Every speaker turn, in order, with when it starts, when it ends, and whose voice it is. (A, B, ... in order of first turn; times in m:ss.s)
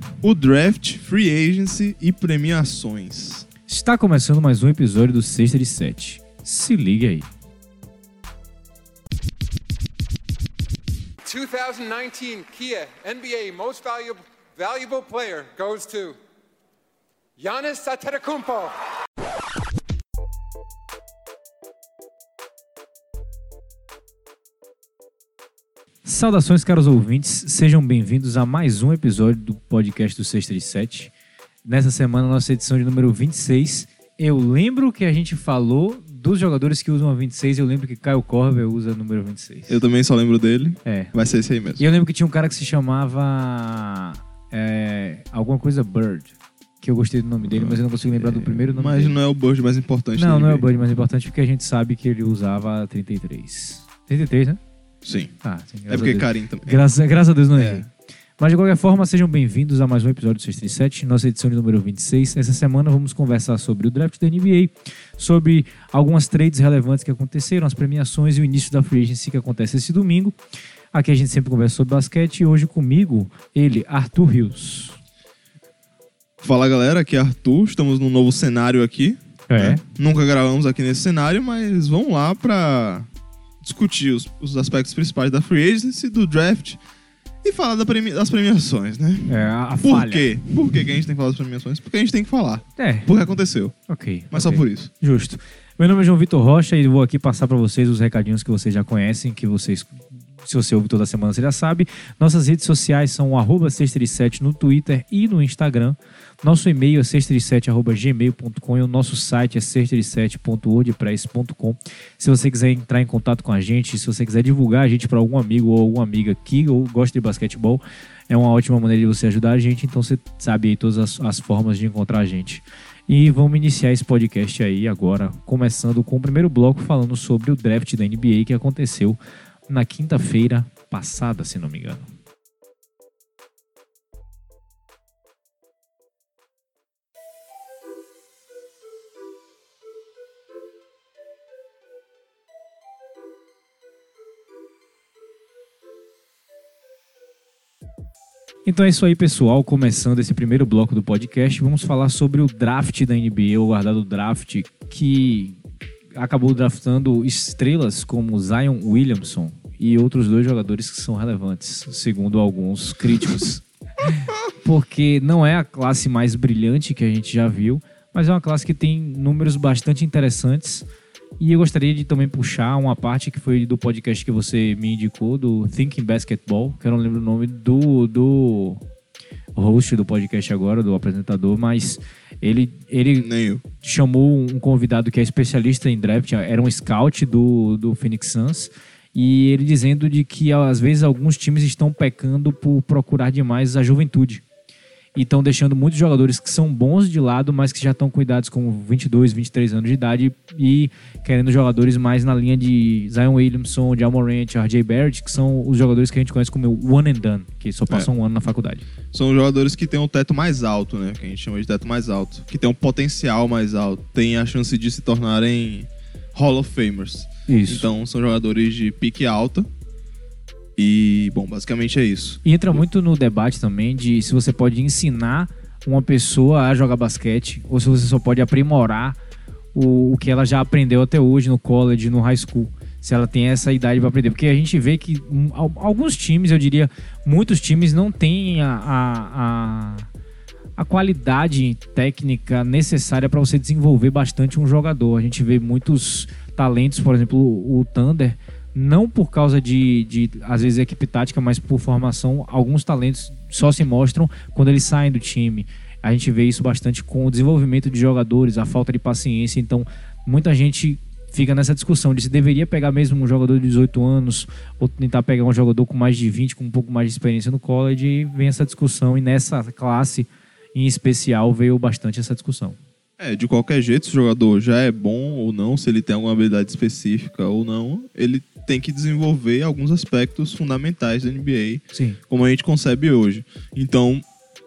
0:00.2-0:03.5 A
0:03.7-0:07.3 B
0:11.2-0:16.2 C
0:17.4-0:18.7 C
0:26.0-0:31.1 B
0:31.6-0:39.8 B
0:39.7-0:41.8 A
0:40.8-0:41.1 B
0:41.8-0:49.1 B
0:47.4-0:50.6 A
0:50.2-0:54.6 B
0:55.0-0:55.3 A
0:55.4-0:57.9 B
0:55.9-0:56.8 A
0:57.5-0:57.9 A
0:58.4-1:10.4 B
1:10.9-1:15.0 B
1:16.4-1:23.1 A
1:19.5-1:19.8 B
1:23.6-1:26.8 A
1:27.4-1:33.7 A
1:29.3-1:30.3 B
1:32.8-1:33.1 B
1:33.9-2:12.0 B
1:34.3-1:34.9 A
2:28.6-2:35.6 B
2:36.1-2:50.8 B
2:51.4-2:58.8 B
2:59.5-3:03.3 B
3:03.2-3:03.6 A
3:03.8-3:14.4 B
3:15.1-3:28.8 B
3:29.1-3:39.7 A
3:37.5-3:37.9 B
3:40.8-3:42.8 A
3:42.4-3:49.2 B
3:49.7-4:00.1 B
4:00.8-4:32.8 B
4:33.2-4:44.2 A
4:41.9-4:42.2 B